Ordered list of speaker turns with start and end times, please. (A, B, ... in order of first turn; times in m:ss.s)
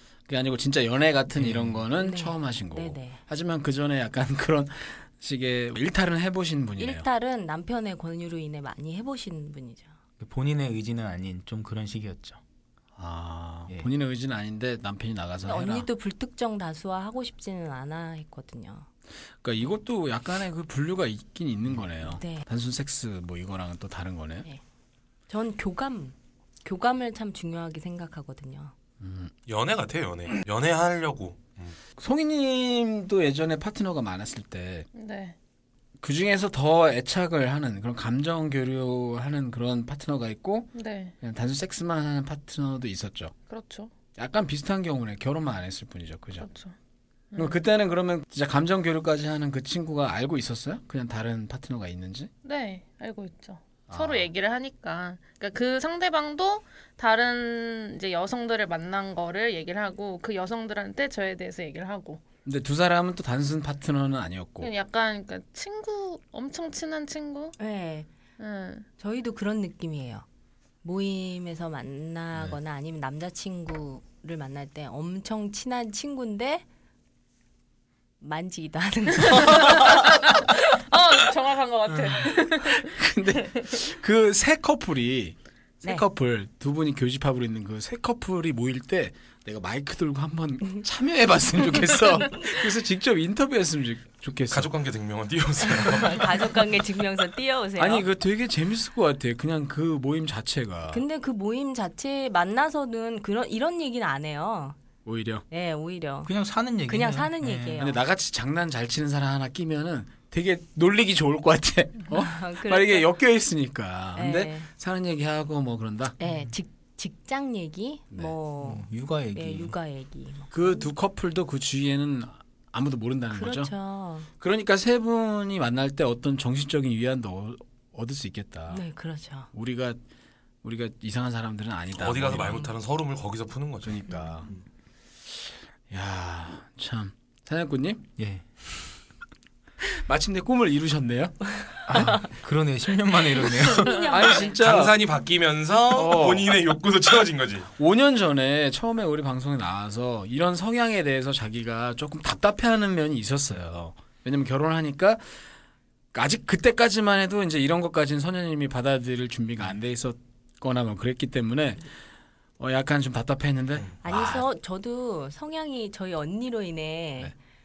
0:00.3-0:07.1 A
0:01.4-0:01.8 B
0:02.0-0:03.2 C
0:06.8-0:09.9 C
0:10.2-0:12.4 B
0:13.0-0:15.9 A
0:15.4-0:18.9 C
0:19.4-0:24.5 A
0:22.2-0:22.5 C
0:25.3-0:28.7 C
0:29.0-0:29.3 A
0:29.5-0:31.8 D
0:32.0-0:34.9 A
0:35.0-0:35.4 E
0:36.0-0:43.3 A
0:40.7-0:41.1 E
0:43.5-0:43.9 E
0:44.2-0:46.5 A
0:46.4-0:46.7 E
0:47.3-0:47.6 E
0:47.4-0:52.3 A
0:52.4-1:02.2 E
0:53.9-0:54.3 A
1:02.4-1:04.7 A
1:04.6-1:07.6 E
1:07.6-1:08.1 C
1:08.4-1:08.9 E
1:09.0-1:10.2 C
1:10.8-1:16.6 C
1:18.2-1:20.4 C
1:19.3-1:23.0 E
1:22.8-1:34.7 A
1:34.5-1:36.5 D
1:35.6-1:38.1 C
1:37.8-1:41.0 A
1:40.9-1:44.8 C
1:45.0-1:45.4 A
1:45.5-1:46.3 C
1:46.2-1:47.8 B
1:46.8-1:48.0 C
1:47.8-1:56.2 A
1:52.1-1:53.1 C
1:54.2-1:54.7 C
1:56.2-2:00.9 C
1:56.2-1:56.5 B
1:58.6-1:59.8 B
2:00.5-2:03.7 A
2:03.3-2:04.3 C
2:04.4-2:08.8 A
2:08.7-2:09.5 C
2:09.5-2:10.0 A
2:10.6-2:12.7 A
2:12.0-2:14.6 D
2:13.8-2:14.5 A
2:14.1-2:14.4 C
2:15.9-2:18.1 A
2:18.2-2:18.4 B
2:19.9-2:22.2 A
2:21.9-2:24.1 B
2:23.6-2:24.6 C
2:24.1-2:25.0 A
2:24.6-2:27.7 D
2:25.9-2:26.5 A
2:27.8-2:35.2 A
2:36.1-2:41.8 A
2:42.6-2:44.5 A
2:44.0-2:47.3 C